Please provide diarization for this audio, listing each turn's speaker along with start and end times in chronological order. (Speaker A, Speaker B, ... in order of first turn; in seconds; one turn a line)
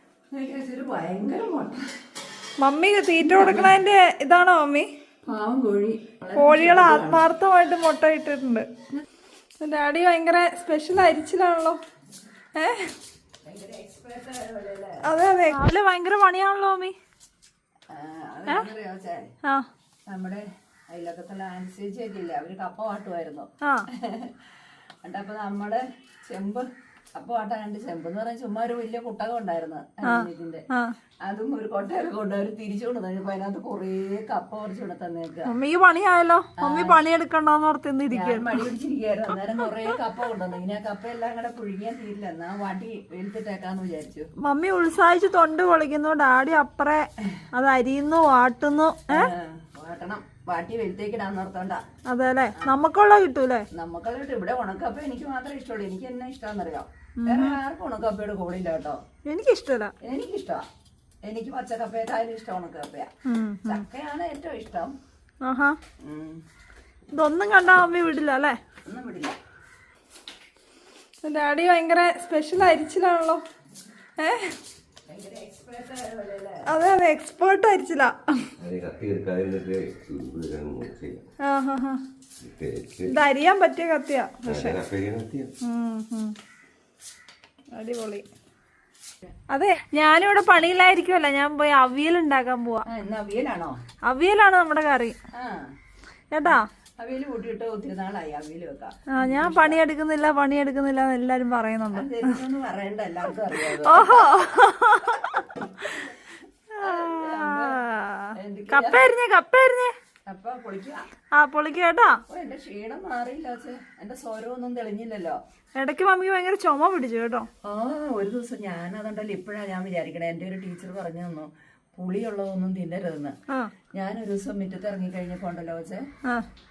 Speaker A: 0.3-1.8
Speaker B: 2.6-4.9
Speaker A: 3.2-3.7
Speaker A: 5.3-7.2
Speaker B: 6.4-8.7
Speaker B: 9.6-11.8
Speaker B: 12.6-12.9
Speaker A: 13.4-15.0
Speaker B: 15.1-16.9
Speaker A: 17.9-19.3
Speaker A: 20.1-23.5
Speaker A: 24.0-24.3
Speaker A: 25.0-30.6
Speaker B: 30.1-30.9
Speaker A: 31.2-35.5
Speaker B: 35.5-38.6
Speaker A: 36.6-37.0
Speaker A: 38.1-44.3
Speaker B: 44.4-49.3
Speaker A: 49.1-51.8
Speaker B: 52.1-53.7
Speaker A: 53.7-59.0
Speaker B: 57.2-57.6
Speaker B: 59.3-59.9
Speaker A: 60.0-60.6
Speaker A: 61.2-63.1
Speaker B: 63.3-63.8
Speaker A: 63.7-65.0
Speaker B: 65.4-65.8
Speaker A: 66.0-66.4
Speaker B: 67.1-68.6
Speaker A: 68.9-69.4
Speaker B: 71.2-73.4
Speaker B: 74.2-74.5
Speaker A: 75.1-76.6
Speaker B: 76.7-78.5
Speaker C: 78.6-81.2
Speaker B: 81.4-82.0
Speaker C: 82.4-83.2
Speaker B: 83.1-84.8
Speaker C: 84.5-85.5
Speaker B: 85.6-86.3
Speaker B: 87.8-88.2
Speaker B: 89.5-92.8
Speaker A: 92.9-93.8
Speaker B: 94.0-95.2
Speaker A: 95.4-95.7
Speaker B: 96.3-96.7
Speaker A: 96.5-99.8
Speaker B: 99.2-102.3
Speaker A: 101.9-104.3
Speaker B: 103.8-106.0
Speaker A: 105.2-107.8
Speaker B: 106.8-109.9
Speaker A: 108.4-109.1
Speaker A: 110.3-111.0
Speaker B: 111.3-112.2
Speaker A: 112.3-115.4
Speaker B: 115.8-117.5
Speaker A: 117.7-123.3
Speaker A: 124.0-126.0